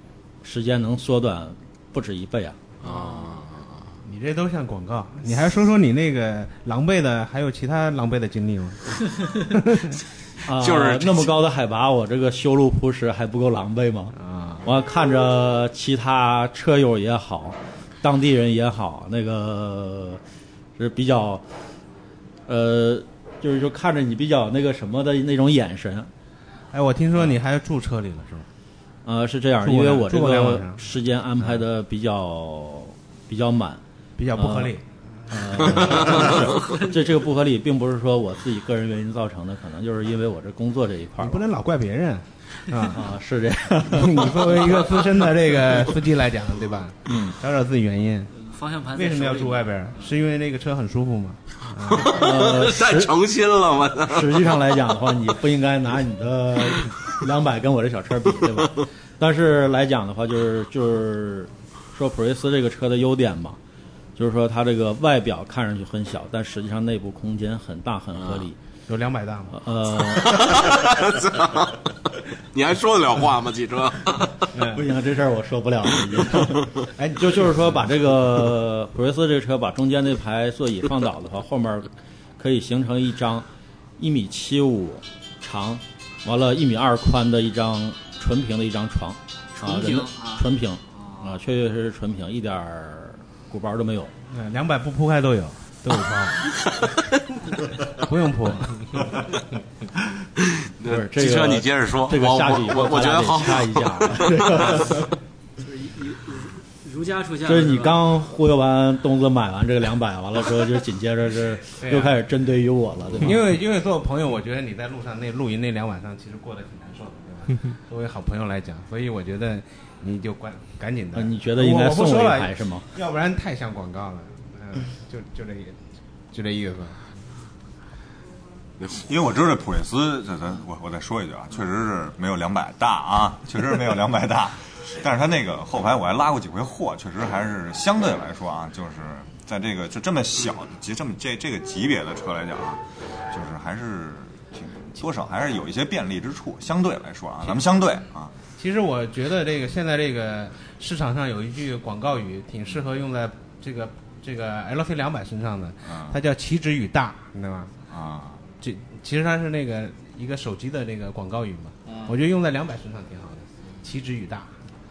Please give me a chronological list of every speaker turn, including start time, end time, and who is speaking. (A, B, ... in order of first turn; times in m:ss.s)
0:00.4-0:02.6 A
0:02.8-0:03.9 B
0:02.9-0:03.3 C
0:04.0-0:10.0 D
0:10.4-0:20.2 A
0:10.6-0:11.3 B
0:14.2-0:14.7 D
0:20.8-0:21.4 A
0:22.5-0:26.1 A
0:26.7-0:28.5 D
0:29.0-0:33.8 A
0:29.6-0:30.8 D
0:34.2-0:36.4 D
0:34.3-0:34.8 A
0:35.3-0:41.4 A
0:36.6-0:36.9 C
0:41.2-0:43.0 D
0:42.9-0:45.0 A
0:43.8-0:48.3 D
0:47.1-0:47.4 A
0:48.4-0:50.2 C
0:48.9-0:52.1 D
0:51.9-0:54.6 B
0:52.0-0:53.2 A
0:54.1-1:03.6 A
1:04.2-1:08.6 A
1:08.2-1:08.5 B
1:08.9-1:09.6 D
1:09.5-1:10.5 A
1:10.0-1:14.5 B
1:14.5-1:14.8 D
1:14.7-1:23.5 A
1:17.0-1:17.4 D
1:24.0-1:34.1 A
1:29.6-1:31.4 C
1:34.3-1:36.5 D
1:37.9-1:39.2 D
1:40.4-1:45.0 B
1:40.8-1:45.0 A
1:45.6-1:48.0 C
1:47.4-1:53.4 A
1:51.8-1:52.2 D
1:53.2-2:05.8 D
2:01.1-2:02.9 A
2:06.3-2:07.0 D
2:09.0-2:28.3 E
2:28.6-2:37.8 D
2:35.9-2:36.2 E
2:37.9-2:38.4 E
2:38.6-2:44.5 D
2:41.9-2:42.2 C